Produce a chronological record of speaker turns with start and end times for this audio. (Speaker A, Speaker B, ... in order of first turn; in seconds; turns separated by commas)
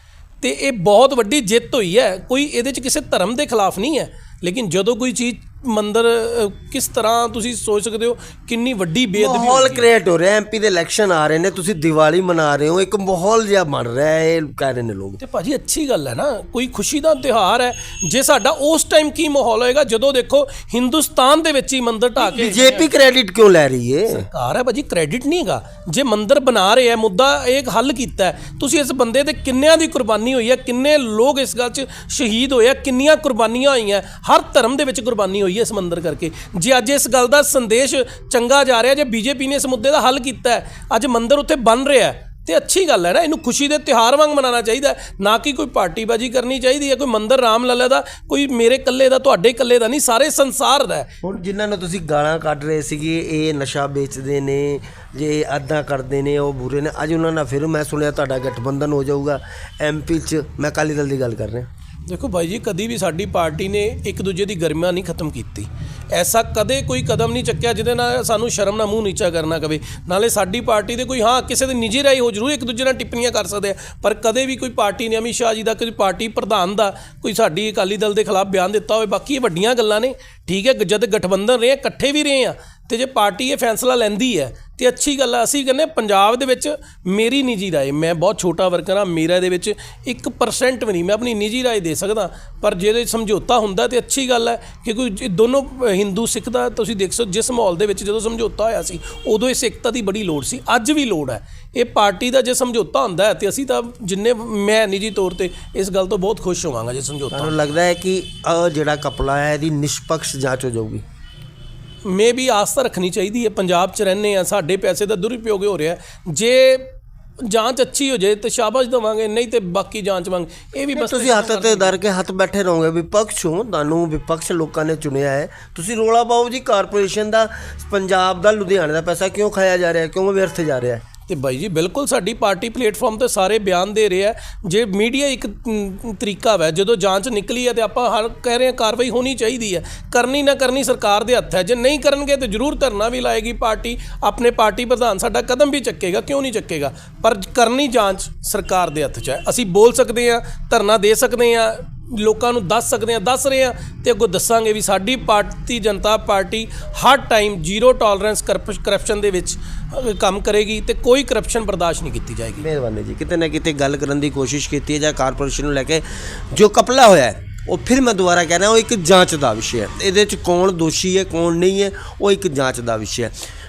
Speaker A: 0.4-9.9, Speaker B: 9.2-15.2, Speaker A: 15.2-22.9, Speaker B: 22.2-24.3, Speaker A: 24.1-51.1, Speaker B: 51.2-61.7, Speaker A: 62.1-107.5, Speaker B: 107.3-111.0, Speaker A: 112.1-116.9, Speaker A: 117.4-122.0, Speaker B: 120.9-131.0, Speaker A: 131.3-162.7, Speaker B: 162.6-173.3